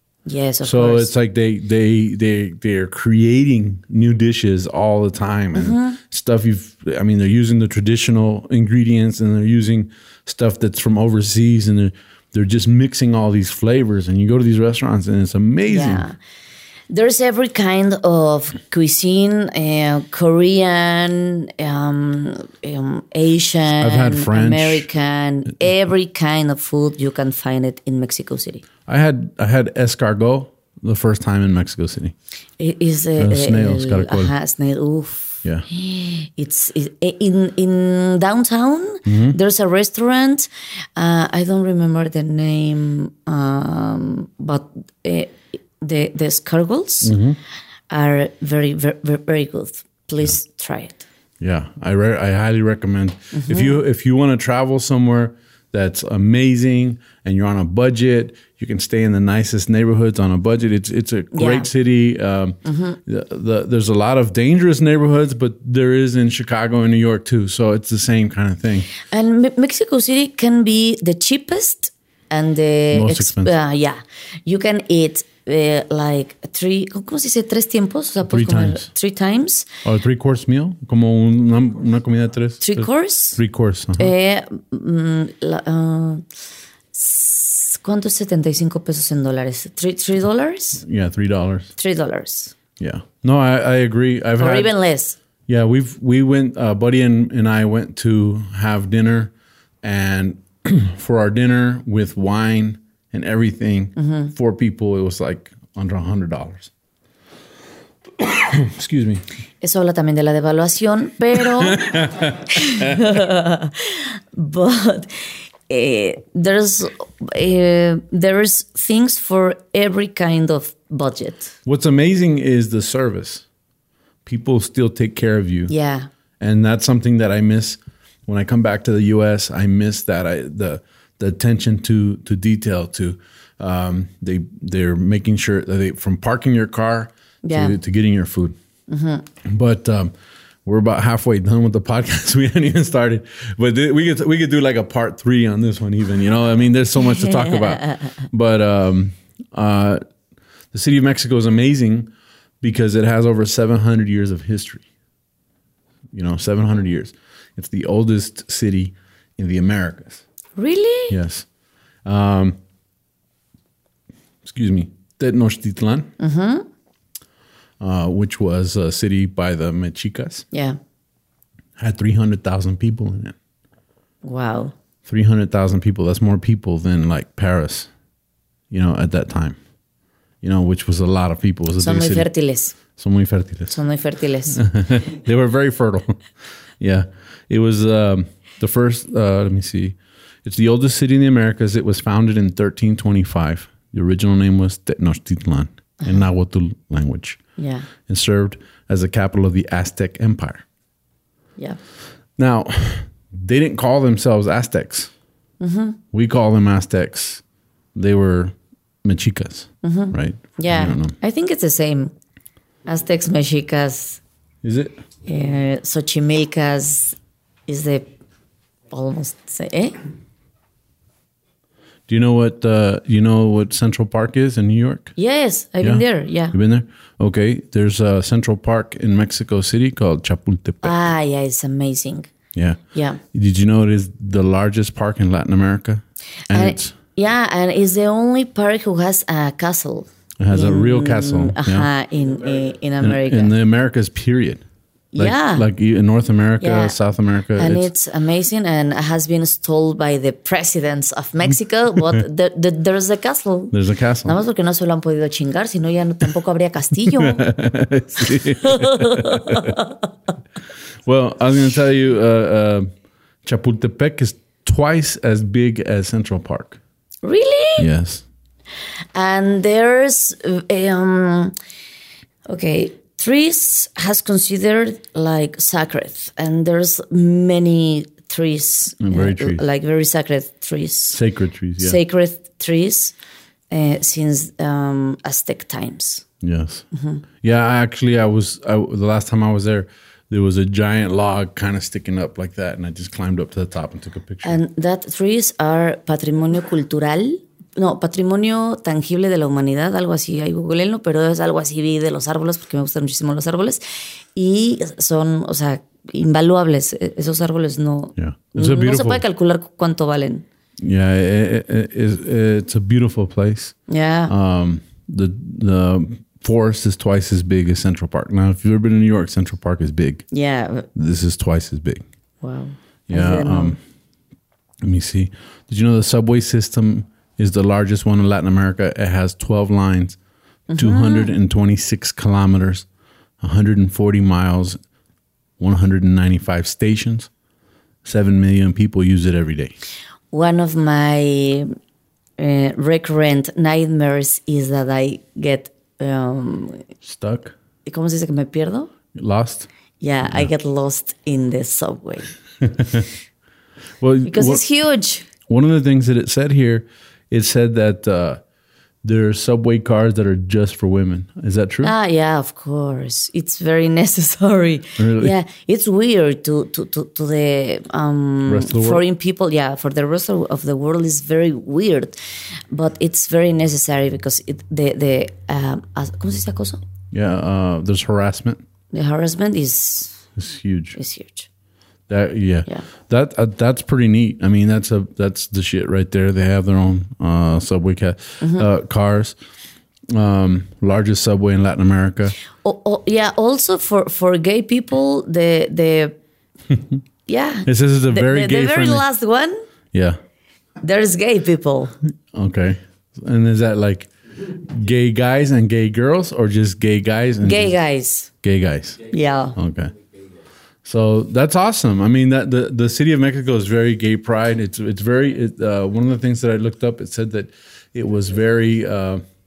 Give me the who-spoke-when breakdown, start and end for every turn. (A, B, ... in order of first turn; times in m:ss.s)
0:00.2-0:01.1 A
0:00.6-0:16.0 B
0:05.5-0:06.0 A
0:15.7-0:16.1 A
0:16.9-0:28.6 A
0:23.8-0:24.9 B
0:28.9-0:32.1 B
0:32.6-0:47.1 A
0:33.2-0:34.3 B
0:39.0-0:39.4 B
0:47.0-0:47.4 B
0:47.9-0:51.0 A
0:51.4-1:08.9 B
0:53.3-0:53.8 A
1:01.3-1:01.7 A
1:02.6-1:03.0 A
1:09.1-1:19.7 A
1:12.9-1:13.5 B
1:18.3-1:18.9 B
1:19.8-1:24.1 B
1:22.6-1:23.4 A
1:24.0-1:26.2 A
1:26.9-1:30.8 A
1:30.8-1:31.7 B
1:31.8-1:32.5 A
1:32.8-1:34.7 B
1:34.4-1:35.2 A
1:35.5-1:39.3 B
1:39.8-1:46.7 B
1:44.0-1:44.3 A
1:48.2-1:49.2 B
1:49.6-2:01.5 A
1:51.3-1:52.4 B
2:01.6-2:03.4 B
2:04.2-2:05.7 B
2:05.7-2:06.1 A
2:06.4-2:18.5 B
2:17.4-2:17.8 A
2:18.9-2:19.3 A
2:19.4-2:20.1 B
2:20.6-2:30.0 B
2:27.0-2:28.2 A
2:30.7-2:32.1 B
2:32.6-2:34.9 B
2:36.1-2:40.2 B
2:40.6-2:41.2 A
2:41.1-2:41.4 B
2:42.0-2:42.6 B
2:44.4-2:46.1 B
2:46.2-2:46.6 A
2:47.8-2:50.4 B
2:50.5-2:50.8 A
2:51.8-2:53.3 B
2:54.2-2:54.7 A
2:55.0-2:57.9 B
2:58.7-2:59.6 B
3:00.4-3:02.3 B
3:01.8-3:02.8 A
3:03.0-3:03.8 B
3:03.7-3:04.6 A
3:04.5-3:06.2 B
3:06.8-3:17.4 B
3:17.6-3:17.9 A
3:18.1-3:20.6 B
3:22.4-3:25.1 B
3:25.6-3:26.0 A
3:26.1-3:27.4 B
3:27.9-3:31.1 B
3:29.8-3:32.1 A
3:32.8-3:34.2 A
3:34.6-3:35.0 B
3:35.2-3:37.2 A
3:37.7-3:38.1 A
3:38.9-3:40.0 A
3:42.1-3:45.1 B
3:45.2-3:46.5 A
3:45.8-3:50.9 B
3:50.8-3:52.3 A
3:52.5-3:52.8 B
3:52.9-3:53.2 A
3:53.3-3:56.9 B
3:56.5-4:03.5 A
4:00.4-4:01.9 B
4:03.0-4:04.6 B
4:05.1-4:05.7 A
4:05.2-4:07.9 B
4:06.6-4:07.0 A
4:07.6-4:13.7 A
4:13.7-4:14.4 B
4:14.2-4:17.4 A
4:17.1-4:19.7 B
4:18.5-4:20.0 A
4:21.0-4:22.9 B
4:23.4-4:26.8 B
4:27.2-4:27.9 A
4:27.8-4:28.2 B
4:29.1-4:31.5 A
4:32.5-4:41.2 A
4:39.0-4:39.6 B
4:41.1-4:42.0 B
4:41.8-4:43.1 A
4:43.7-4:46.2 A
4:46.4-4:46.8 B
4:46.9-4:47.2 A
4:47.4-4:54.6 B
4:54.4-5:10.4 A
5:08.2-5:09.2 B
5:10.8-5:13.7 B
5:13.9-5:14.3 A
5:14.3-5:20.2 B
5:20.3-5:20.9 A
5:20.9-5:22.0 B
5:22.4-5:23.8 A
5:23.1-5:23.8 B
5:24.8-5:30.2 B
5:30.7-5:31.3 A
5:30.8-5:32.8 B
5:33.4-5:34.8 B
5:35.6-5:37.3 B
5:38.0-5:39.7 B
5:40.3-5:41.7 A
5:42.4-5:46.9 A
5:47.0-5:47.5 B
5:47.8-5:48.9 A
5:49.1-5:49.7 B
5:50.0-5:52.3 A
5:50.2-5:50.5 B
5:52.6-5:53.1 B
5:54.0-5:54.6 B
5:54.2-5:55.3 A
5:55.5-5:58.4 B
5:59.0-6:01.9 B
6:01.8-6:12.2 A
6:05.0-6:05.3 B
6:08.5-6:09.0 B
6:12.7-6:16.8 A
6:17.1-6:18.6 B
6:18.9-6:20.2 A
6:20.4-6:21.0 B
6:21.0-6:21.5 A
6:22.1-6:29.4 B
6:28.4-6:28.7 A
6:30.1-6:32.3 B
6:32.6-6:36.1 A
6:37.3-6:39.6 A
6:37.7-6:39.0 B
6:40.8-6:41.9 A
6:42.3-6:47.7 B
6:47.4-6:48.3 A
6:48.4-6:49.0 B
6:49.1-6:49.6 A
6:49.6-6:49.9 B
6:50.8-6:59.2 B